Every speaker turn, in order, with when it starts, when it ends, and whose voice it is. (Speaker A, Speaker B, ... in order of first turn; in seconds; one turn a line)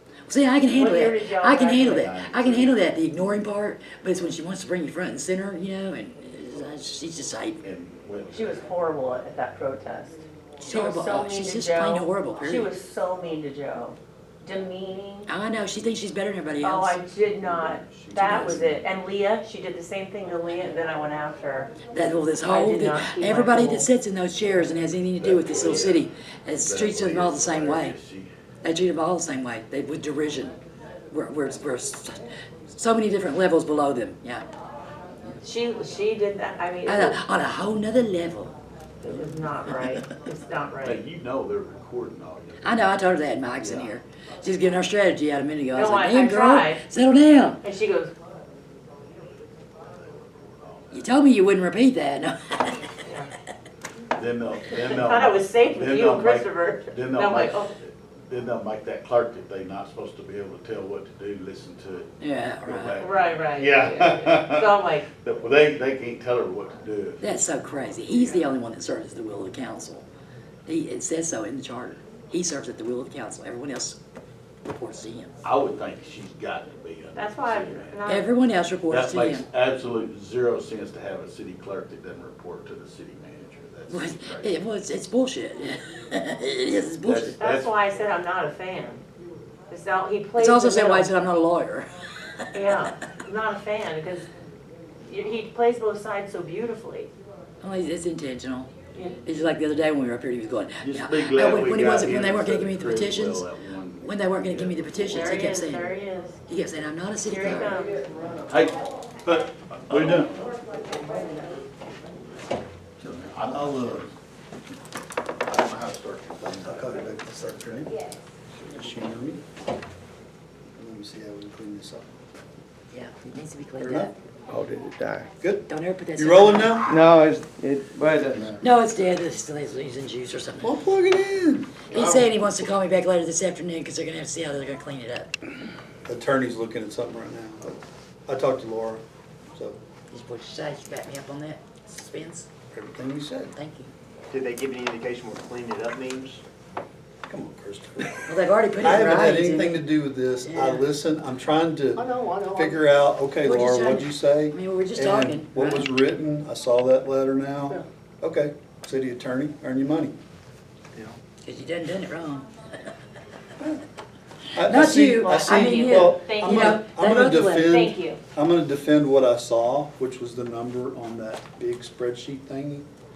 Speaker A: 0.3-7.6
Speaker B: 0.7-2.1
Speaker C: 1.8-2.9
Speaker C: 7.6-8.7
Speaker B: 8.3-15.3
Speaker A: 10.6-12.7
Speaker A: 15.3-17.0
Speaker B: 16.6-21.8
Speaker C: 17.4-18.8
Speaker A: 18.2-18.6
Speaker A: 21.9-27.9
Speaker B: 22.4-23.9
Speaker C: 25.2-28.3
Speaker A: 28.6-30.5
Speaker A: 31.1-34.5
Speaker B: 35.4-37.2
Speaker A: 36.9-38.5
Speaker B: 39.0-41.0
Speaker A: 39.1-40.0
Speaker C: 40.8-43.0
Speaker A: 42.6-47.6
Speaker C: 43.6-44.0
Speaker B: 45.7-46.8
Speaker B: 47.6-48.1
Speaker C: 49.7-51.1
Speaker A: 50.9-52.8
Speaker B: 53.0-53.3
Speaker C: 54.1-68.5
Speaker B: 54.8-57.7
Speaker A: 62.2-63.0
Speaker B: 63.0-65.1
Speaker A: 67.2-70.0
Speaker A: 70.7-74.0
Speaker A: 74.6-75.3
Speaker C: 75.4-78.0
Speaker B: 77.1-78.3
Speaker A: 78.1-79.5
Speaker C: 78.9-84.6
Speaker A: 83.9-87.4
Speaker C: 87.0-87.7
Speaker B: 87.4-89.0
Speaker B: 89.7-91.1
Speaker A: 90.4-92.4
Speaker B: 92.5-94.3
Speaker B: 95.0-97.1
Speaker A: 97.6-98.7
Speaker A: 99.2-103.5
Speaker C: 100.8-105.4
Speaker A: 104.0-106.0
Speaker B: 105.0-106.4
Speaker A: 106.5-107.8
Speaker B: 107.2-108.2
Speaker C: 108.5-110.5
Speaker D: 109.9-110.3
Speaker E: 110.6-111.5
Speaker C: 113.0-114.1
Speaker D: 113.4-114.1
Speaker C: 115.4-117.1
Speaker D: 116.4-118.0
Speaker D: 118.6-119.4
Speaker D: 120.7-122.2
Speaker A: 122.9-124.1
Speaker D: 123.8-124.1
Speaker E: 124.5-125.3
Speaker D: 125.4-126.9
Speaker A: 125.7-126.8
Speaker E: 126.9-128.5
Speaker A: 128.6-130.7
Speaker D: 130.6-132.0
Speaker A: 131.9-135.3
Speaker D: 136.1-139.0
Speaker A: 140.1-142.5
Speaker D: 142.7-143.5
Speaker A: 143.5-143.9
Speaker F: 144.3-146.4
Speaker D: 147.3-160.1
Speaker A: 148.2-150.9
Speaker F: 152.0-152.8
Speaker A: 153.4-155.9
Speaker A: 161.4-162.5
Speaker D: 164.5-172.9
Speaker A: 164.6-167.9
Speaker B: 164.9-166.8
Speaker B: 167.6-168.2